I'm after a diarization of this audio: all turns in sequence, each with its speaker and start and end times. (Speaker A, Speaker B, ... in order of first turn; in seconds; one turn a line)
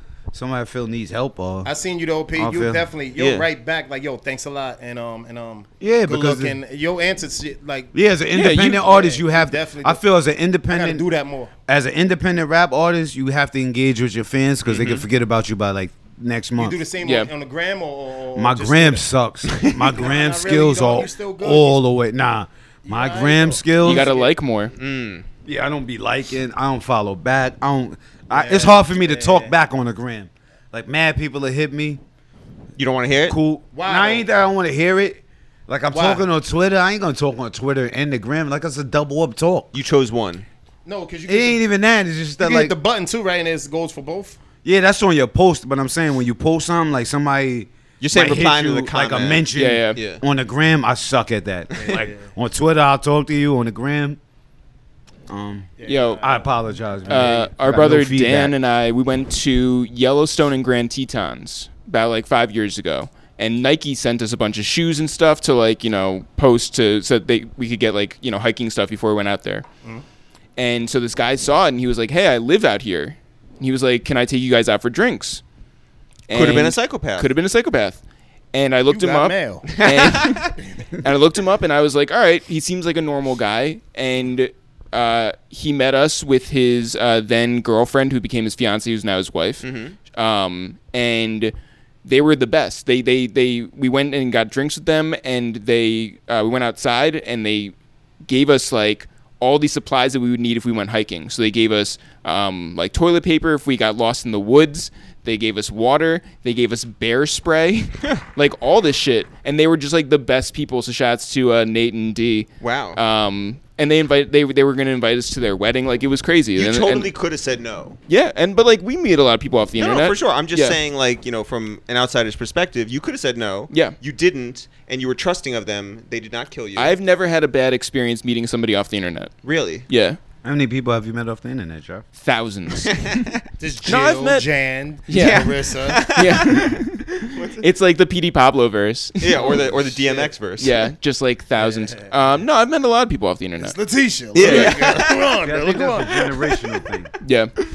Speaker A: 0.3-1.7
Speaker B: 1.6-7.9
Speaker A: 2.4-2.9
Speaker C: 3.1-3.5
Speaker A: 5.8-6.6
Speaker A: 7.9-11.0
Speaker D: 8.3-8.8
Speaker B: 8.7-10.0
Speaker B: 10.7-11.5
Speaker A: 11.7-16.8
Speaker C: 14.7-15.0
Speaker B: 16.6-19.0
Speaker D: 17.0-17.3
Speaker A: 18.4-24.1
Speaker C: 19.5-19.8
Speaker B: 19.8-21.8
Speaker B: 22.8-24.3
Speaker D: 23.8-24.7
Speaker C: 24.7-25.2
Speaker A: 25.4-32.0
Speaker B: 28.3-29.5
Speaker C: 32.8-33.4
Speaker A: 33.3-39.7
Speaker B: 33.7-34.3
Speaker B: 35.9-36.2
Speaker C: 39.7-40.4
Speaker B: 40.8-41.6
Speaker A: 41.3-42.8
Speaker B: 42.4-44.4
Speaker A: 44.6-54.2
Speaker C: 48.0-49.4
Speaker D: 49.5-50.0
Speaker C: 50.0-50.2
Speaker B: 51.8-52.3
Speaker A: 55.3-58.5
Speaker B: 55.8-56.5
Speaker D: 55.9-56.3
Speaker D: 57.1-69.6
Speaker D: 70.6-75.4
Speaker D: 76.3-78.0
Speaker C: 76.3-77.3
Speaker D: 78.5-91.5
Speaker B: 78.9-79.7
Speaker C: 79.7-80.5
Speaker C: 89.6-90.0
Speaker D: 92.0-97.7
Speaker D: 98.2-117.1
Speaker C: 112.6-113.0
Speaker C: 116.5-118.0
Speaker D: 118.1-120.8
Speaker C: 119.8-126.9
Speaker D: 123.7-123.9
Speaker D: 126.8-129.3
Speaker C: 129.4-129.8
Speaker D: 129.9-130.2
Speaker A: 130.4-132.0
Speaker D: 132.2-133.2
Speaker C: 132.9-133.4
Speaker B: 133.6-136.0
Speaker D: 133.8-134.4
Speaker D: 135.1-135.6
Speaker C: 135.1-137.7
Speaker D: 136.1-139.7
Speaker C: 139.2-140.8
Speaker D: 140.6-143.8
Speaker B: 141.6-142.1
Speaker B: 143.6-146.5
Speaker C: 144.3-145.1
Speaker D: 144.4-144.9
Speaker A: 145.4-147.1
Speaker D: 147.2-147.5